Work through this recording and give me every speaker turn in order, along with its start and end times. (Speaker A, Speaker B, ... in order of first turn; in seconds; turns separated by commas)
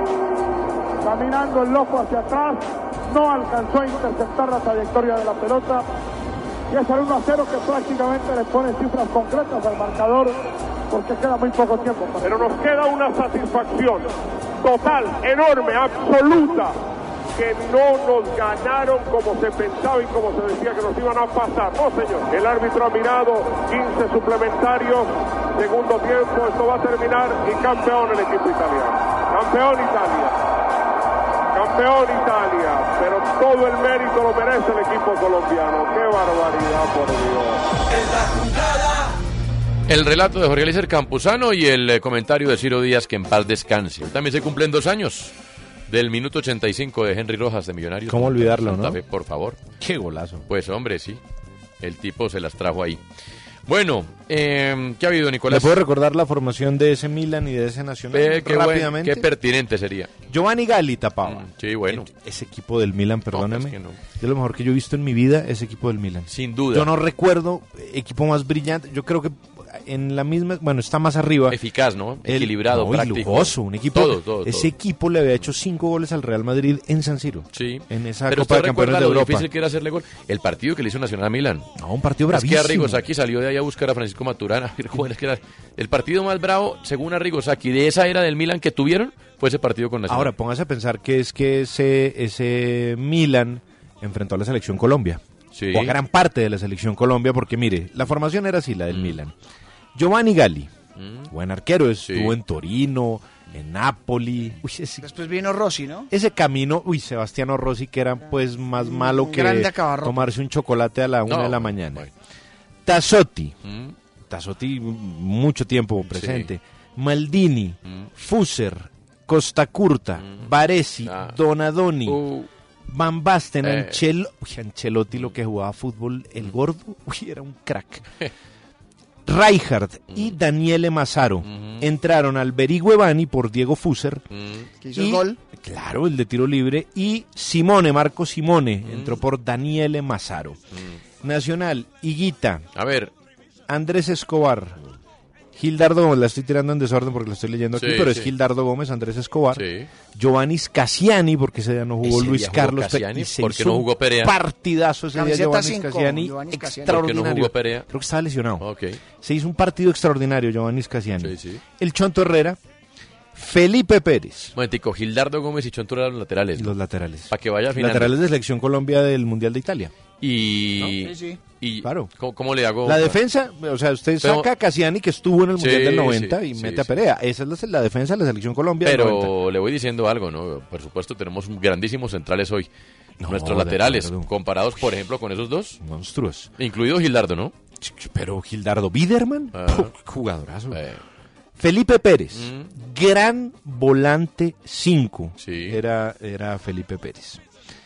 Speaker A: 1.0-5.8, Speaker A: 6.7-10.4, Speaker A: 10.9-12.5, Speaker B: 12.2-16.8, Speaker B: 17.3-30.3, Speaker B: 31.5-37.6, Speaker C: 39.9-45.3, Speaker C: 45.9-49.6, Speaker D: 48.1-49.0, Speaker D: 49.8-50.4, Speaker C: 50.5-51.2, Speaker C: 51.8-53.0, Speaker C: 53.7-55.8, Speaker D: 55.5-59.3, Speaker C: 58.1-60.1, Speaker D: 60.3-71.6, Speaker C: 61.2-62.1, Speaker C: 63.3-64.0, Speaker C: 66.3-66.9, Speaker C: 71.5-74.7, Speaker D: 72.2-79.5, Speaker C: 77.5-81.7, Speaker D: 81.8-83.0, Speaker C: 82.3-90.3, Speaker D: 90.1-99.3, Speaker C: 95.5-96.0, Speaker C: 98.9-99.2, Speaker D: 99.9-100.7, Speaker C: 101.0-101.3, Speaker D: 101.3-105.0, Speaker C: 102.1-102.3, Speaker E: 105.0-106.1, Speaker D: 106.1-112.1, Speaker E: 108.8-110.3, Speaker C: 111.3-112.1, Speaker D: 112.8-113.5, Speaker C: 113.7-113.9, Speaker D: 114.3-122.2, Speaker C: 116.1-116.5, Speaker C: 120.2-120.5, Speaker C: 121.0-121.3, Speaker C: 122.0-122.5, Speaker D: 122.9-128.1, Speaker C: 123.6-124.0, Speaker D: 129.2-134.2, Speaker C: 131.4-131.8, Speaker C: 134.3-134.7, Speaker E: 134.8-135.4, Speaker D: 134.9-140.6, Speaker C: 138.8-139.2, Speaker D: 141.2-142.6, Speaker C: 142.8-143.1, Speaker D: 143.7-144.8, Speaker D: 145.5-149.6, Speaker C: 147.8-148.3, Speaker C: 149.5-149.9, Speaker D: 150.1-158.7, Speaker C: 152.0-154.3, Speaker E: 155.1-157.2, Speaker C: 156.9-157.8, Speaker C: 158.6-159.0, Speaker D: 159.2-162.6, Speaker C: 161.2-161.6, Speaker D: 163.3-164.5, Speaker C: 164.5-166.7, Speaker D: 166.6-169.9, Speaker C: 167.3-168.1, Speaker C: 170.2-173.2, Speaker E: 170.8-171.4, Speaker D: 171.8-172.1, Speaker D: 172.8-179.3, Speaker C: 174.2-174.5, Speaker C: 175.6-176.9, Speaker C: 178.8-182.7, Speaker D: 183.2-184.3, Speaker C: 183.2-185.8, Speaker D: 185.8-186.5, Speaker C: 186.6-187.5, Speaker D: 187.8-190.8, Speaker C: 189.5-189.9, Speaker C: 190.7-191.0, Speaker D: 191.6-197.4, Speaker C: 192.3-192.7, Speaker C: 195.4-195.8